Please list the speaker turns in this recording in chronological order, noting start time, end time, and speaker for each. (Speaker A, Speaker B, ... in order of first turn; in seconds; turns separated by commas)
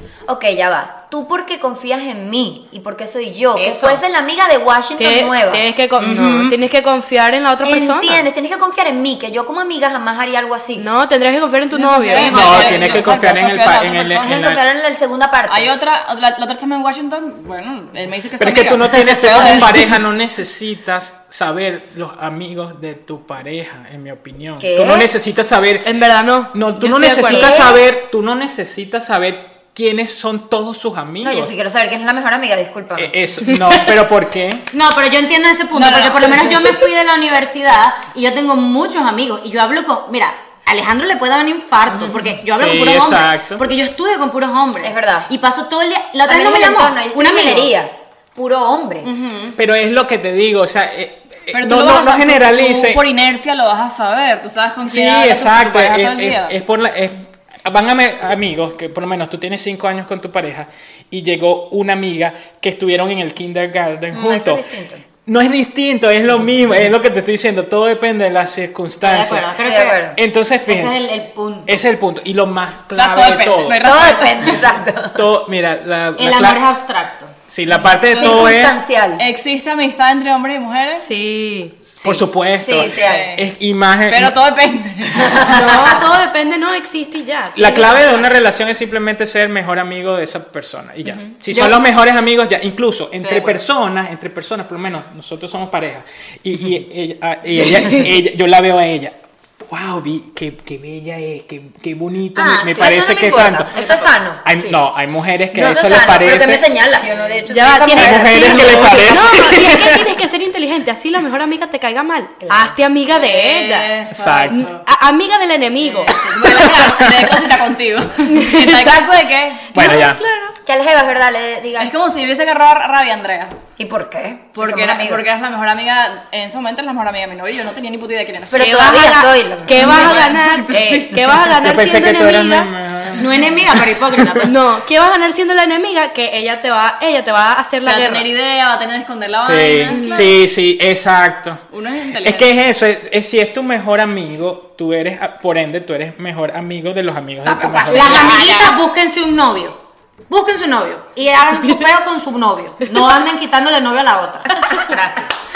Speaker A: 0.3-5.6, Speaker B: 3.5-4.0, Speaker C: 5.0-8.2, Speaker B: 6.0-6.5, Speaker A: 7.6-10.8, Speaker C: 10.8-12.3, Speaker D: 11.7-14.3, Speaker E: 12.2-14.6, Speaker B: 12.2-12.6, Speaker A: 12.5-12.9, Speaker A: 14.2-15.7, Speaker D: 15.5-19.7, Speaker E: 18.4-25.9, Speaker A: 24.6-25.1, Speaker C: 25.8-27.7, Speaker E: 26.5-31.5, Speaker A: 27.3-27.8, Speaker A: 31.2-33.1, Speaker E: 33.0-34.6, Speaker B: 34.7-47.7, Speaker D: 35.7-36.8, Speaker E: 42.5-43.6, Speaker A: 44.8-45.3, Speaker A: 46.2-49.1, Speaker B: 49.0-49.6, Speaker E: 49.6-53.0, Speaker D: 51.5-56.5, Speaker E: 54.8-64.6, Speaker A: 64.1-65.0, Speaker E: 65.2-69.5, Speaker B: 69.0-70.1, Speaker A: 69.5-70.2, Speaker E: 70.1-71.0, Speaker B: 70.6-71.8, Speaker E: 71.7-73.9, Speaker D: 72.9-74.6, Speaker A: 73.8-75.2, Speaker E: 75.1-76.6, Speaker B: 76.2-77.3, Speaker E: 77.5-78.8, Speaker D: 78.0-78.6, Speaker A: 78.2-79.2, Speaker D: 79.2-81.1, Speaker C: 81.0-81.8, Speaker E: 82.0-84.3, Speaker B: 82.0-82.3, Speaker A: 82.6-83.3, Speaker D: 82.8-83.5, Speaker D: 84.1-85.6, Speaker A: 85.2-86.0, Speaker C: 85.4-88.2, Speaker E: 87.6-103.7, Speaker B: 91.5-91.8, Speaker B: 93.2-93.6, Speaker A: 102.4-104.4, Speaker B: 102.4-102.9, Speaker B: 103.7-104.8, Speaker E: 104.4-106.6, Speaker A: 105.6-109.2, Speaker D: 107.0-107.4, Speaker C: 107.5-113.9, Speaker E: 107.9-110.1, Speaker A: 112.4-112.8, Speaker D: 113.1-114.8, Speaker E: 114.1-114.7, Speaker C: 114.5-116.1, Speaker D: 115.8-119.7, Speaker E: 116.4-117.2, Speaker C: 118.3-119.0, Speaker E: 119.7-120.2, Speaker C: 119.8-120.5, Speaker A: 120.6-121.9, Speaker D: 121.8-123.6, Speaker A: 123.8-125.2, Speaker D: 124.5-128.6, Speaker A: 128.5-130.3, Speaker C: 128.6-132.7, Speaker D: 129.7-131.4, Speaker E: 131.6-134.5, Speaker B: 133.1-134.6, Speaker C: 134.4-138.3, Speaker D: 137.8-140.3, Speaker E: 139.4-141.6, Speaker C: 139.9-140.3, Speaker D: 141.7-142.5, Speaker E: 142.2-148.4, Speaker D: 147.5-148.8, Speaker B: 147.9-149.8, Speaker B: 150.3-155.3